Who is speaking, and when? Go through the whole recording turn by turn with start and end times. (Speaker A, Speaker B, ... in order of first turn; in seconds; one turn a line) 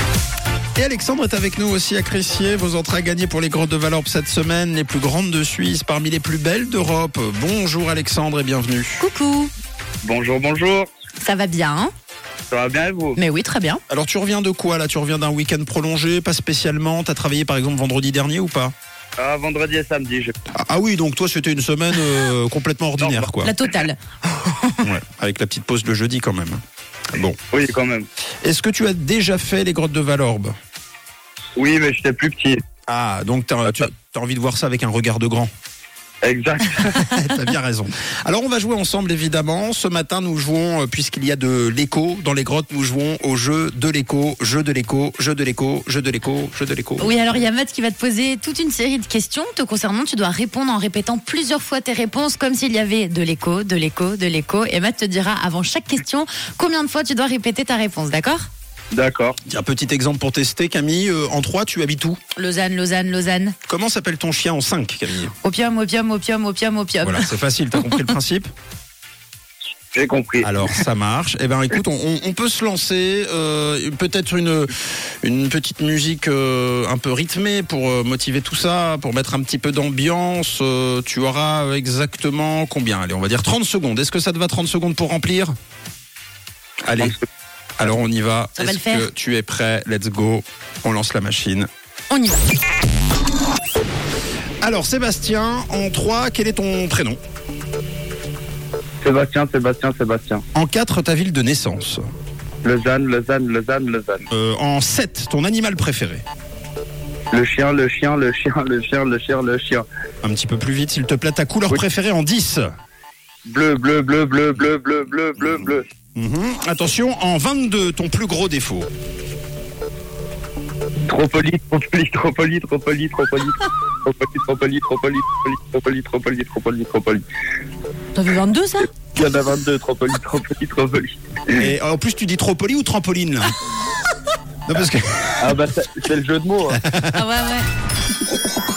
Speaker A: 0.8-9.1
Speaker B: 9.0-9.5
Speaker C: 10.0-10.9
Speaker B: 11.2-11.9
Speaker C: 12.5-13.2
Speaker B: 13.2-13.8
Speaker A: 13.9-18.7
Speaker C: 19.2-20.3
Speaker A: 20.5-23.5
Speaker C: 23.0-23.3
Speaker B: 23.4-24.9
Speaker A: 24.8-26.6
Speaker A: 27.1-27.4
Speaker C: 27.5-28.1
Speaker A: 28.4-30.5
Speaker C: 31.6-32.6
Speaker A: 32.9-35.5
Speaker C: 36.2-37.0
Speaker A: 36.9-47.1
Speaker B: 47.0-58.5
Speaker C: 58.9-59.4
Speaker A: 59.4-62.2
Speaker B: 62.4-63.5
Speaker A: 63.7-65.3
Speaker B: 65.4-67.3
Speaker A: 67.0-68.5
Speaker C: 69.9-70.5
Speaker A: 70.4-74.7
Speaker A: 75.2-85.5
Speaker A: 86.8-87.1
Speaker A: 87.8-91.7
Speaker B: 88.6-89.1
Speaker B: 92.1-92.4
Speaker A: 94.6-97.2
Speaker C: 99.0-100.4
Speaker A: 100.5-102.0
Speaker C: 102.6-104.2
Speaker A: 104.3-106.2
Speaker C: 107.3-109.8
Speaker A: 110.2-112.6
Speaker C: 113.5-115.8
Speaker A: 116.2-118.9
Speaker C: 121.1-127.2
Speaker B: 128.1-129.0
Speaker C: 129.0-131.7
Speaker A: 131.6-133.5
Speaker A: 134.7-135.4
Speaker C: 135.4-136.8
Speaker A: 136.7-137.2
Speaker B: 137.1-137.7